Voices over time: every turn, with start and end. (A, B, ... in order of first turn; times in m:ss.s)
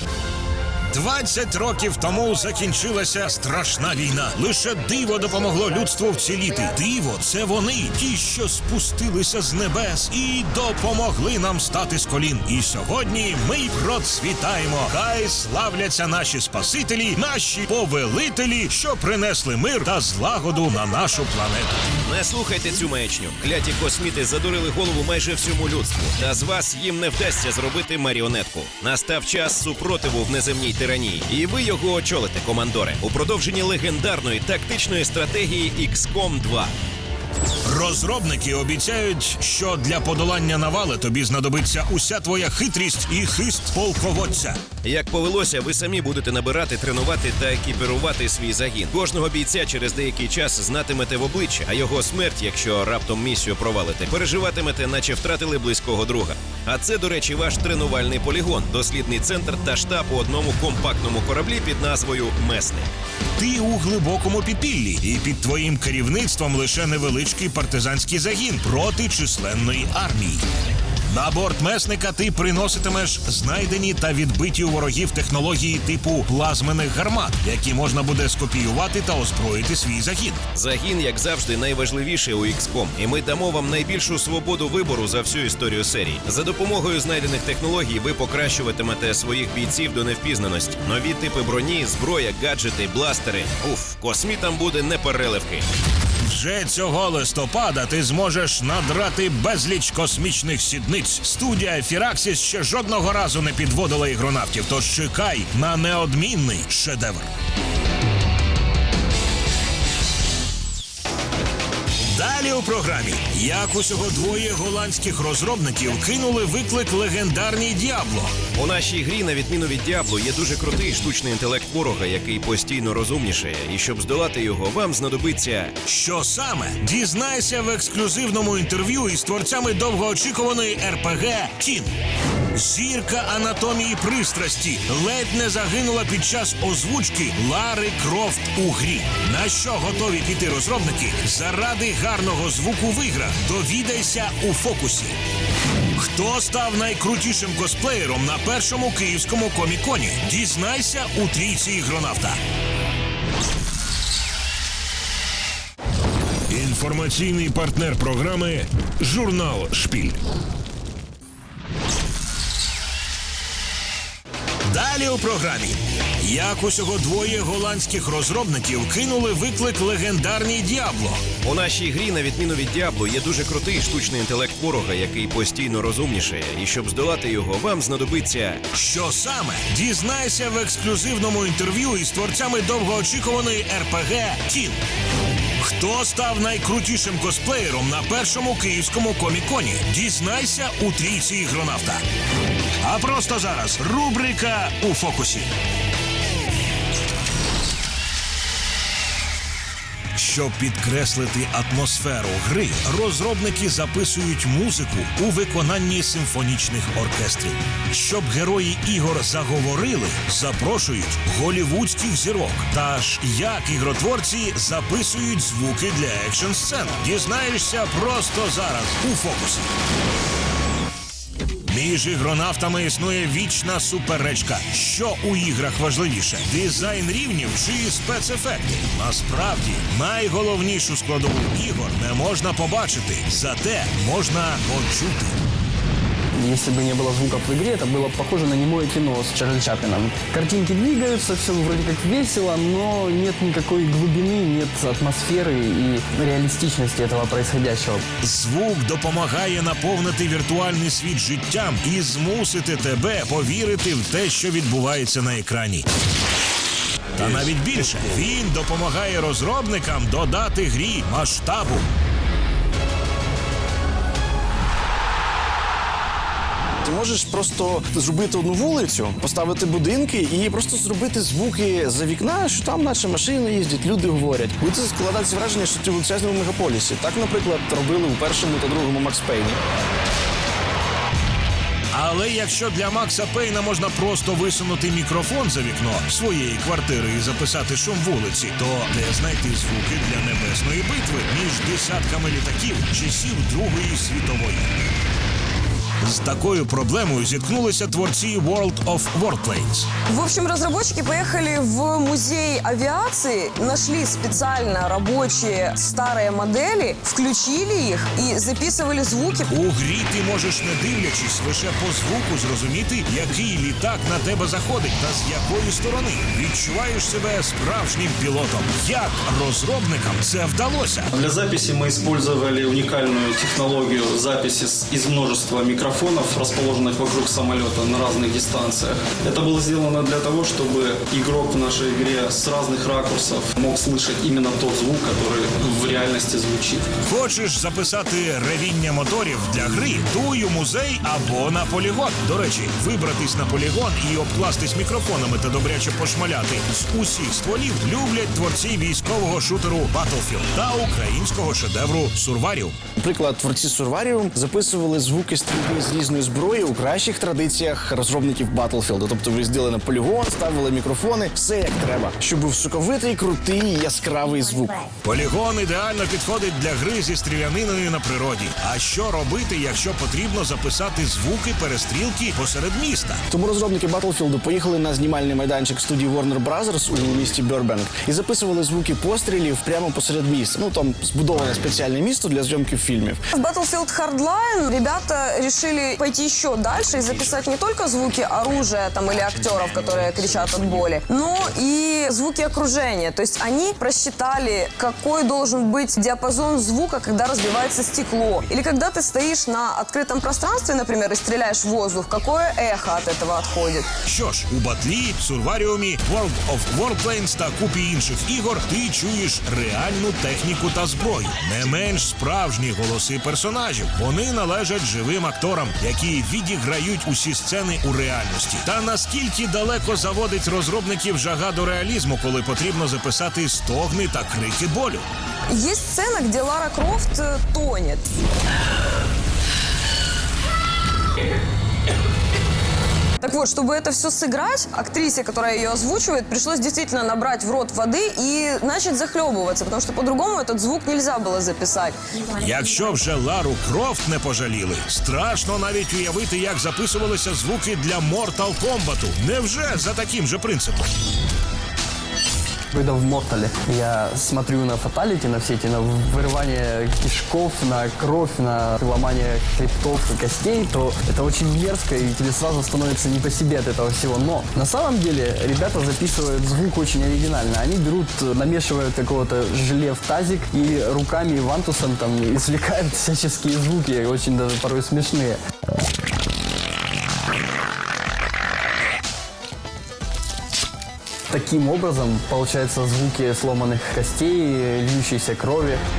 0:00.9-0:21.9 A
0:22.0-0:36.7 B
0:37.6-0:44.6 A
0:44.8-1:02.9 B
1:03.4-1:10.4 A
1:11.1-1:20.4 A
1:20.5-1:35.7 B
1:36.2-1:47.3 A
1:52.1-1:58.4 A
1:58.5-2:05.8 B
2:05.8-2:11.9 A
2:12.5-2:25.2 A
2:25.9-2:32.4 A
2:36.5-2:40.2 A
2:44.6-2:51.2 A
2:51.4-2:58.6 B
2:58.7-3:04.8 A
3:05.6-3:12.0 A
3:12.8-3:15.5 A
3:20.2-3:39.7 A
3:41.7-3:55.4 A
3:56.4-4:08.0 C
4:08.2-4:15.8 A
4:17.2-4:21.8 A
4:26.8-4:39.6 D
4:41.9-4:54.7 A
4:56.0-4:59.9 A
5:00.1-5:09.6 E
5:09.5-5:21.1 A
5:21.1-5:36.9 F
5:37.0-5:52.7 A
5:53.0-6:04.8 D
6:05.0-6:13.2 A
6:13.3-6:23.2 D
6:23.3-6:43.9 E
6:44.0-7:05.0 A
7:05.5-7:08.1 E
7:13.2-7:22.0 E
7:22.3-7:30.9 A
7:32.7-7:55.4 C
8:01.3-8:05.8 C